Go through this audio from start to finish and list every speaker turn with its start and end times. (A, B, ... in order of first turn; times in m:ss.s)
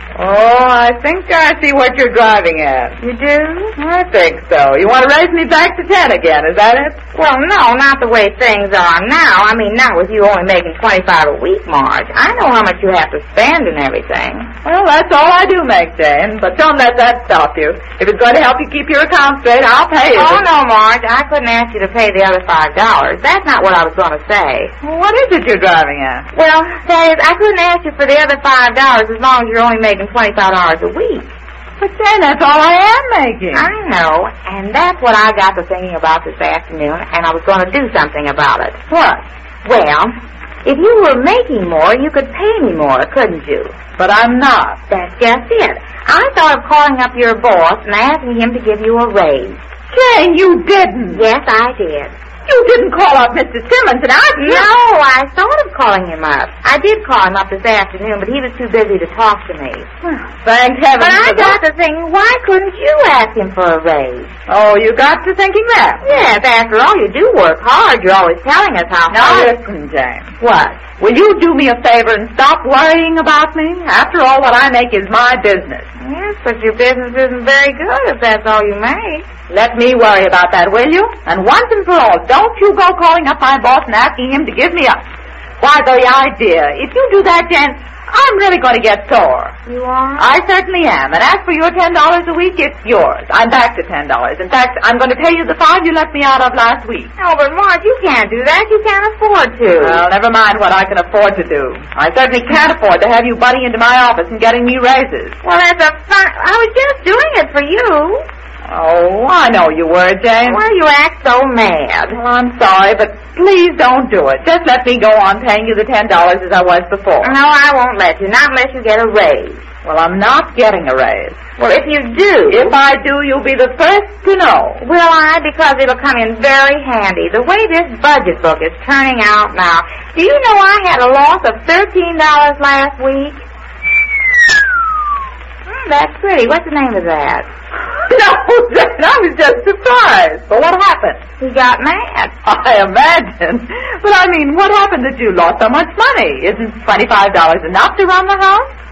0:00.2-0:03.0 A
0:03.0-0:03.7 B
0:03.8-0:07.0 A
0:07.2-0:14.5 B
0:14.6-0:20.4 A
0:20.2-0:24.7 B
0:24.8-0:26.3 A
0:26.3-0:31.3 B
0:31.8-0:33.7 A
0:33.5-0:38.8 B
0:38.9-0:39.2 A
0:39.6-0:40.1 B
0:40.6-0:43.7 B
0:44.0-0:44.8 A
0:44.9-0:49.6 B
0:49.9-0:51.2 A
0:51.1-0:52.1 B
0:52.5-0:54.7 A
0:54.4-0:59.9 B
1:00.0-1:01.6 A
1:01.0-1:04.3 B
1:04.5-1:06.1 A
1:06.0-1:09.5 B
1:09.1-1:10.3 A
1:10.4-1:10.8 B
1:11.0-1:15.9 A
1:16.0-1:19.3 B
1:19.5-1:25.0 A
1:25.6-1:29.6 A
1:29.7-1:30.3 B
1:30.2-1:37.1 A
1:37.2-1:40.0 B
1:39.8-1:45.4 A
1:45.4-1:48.2 B
1:48.7-1:50.6 A
1:50.4-1:52.2 B
1:52.1-1:57.3 A
1:57.2-1:59.6 B
1:59.8-2:01.4 A
2:01.6-2:02.7 B
2:02.5-2:04.8 A
2:04.8-2:13.4 B
2:15.7-2:17.5 B
2:18.1-2:21.2 A
2:21.4-2:22.3 B
2:22.4-2:28.7 A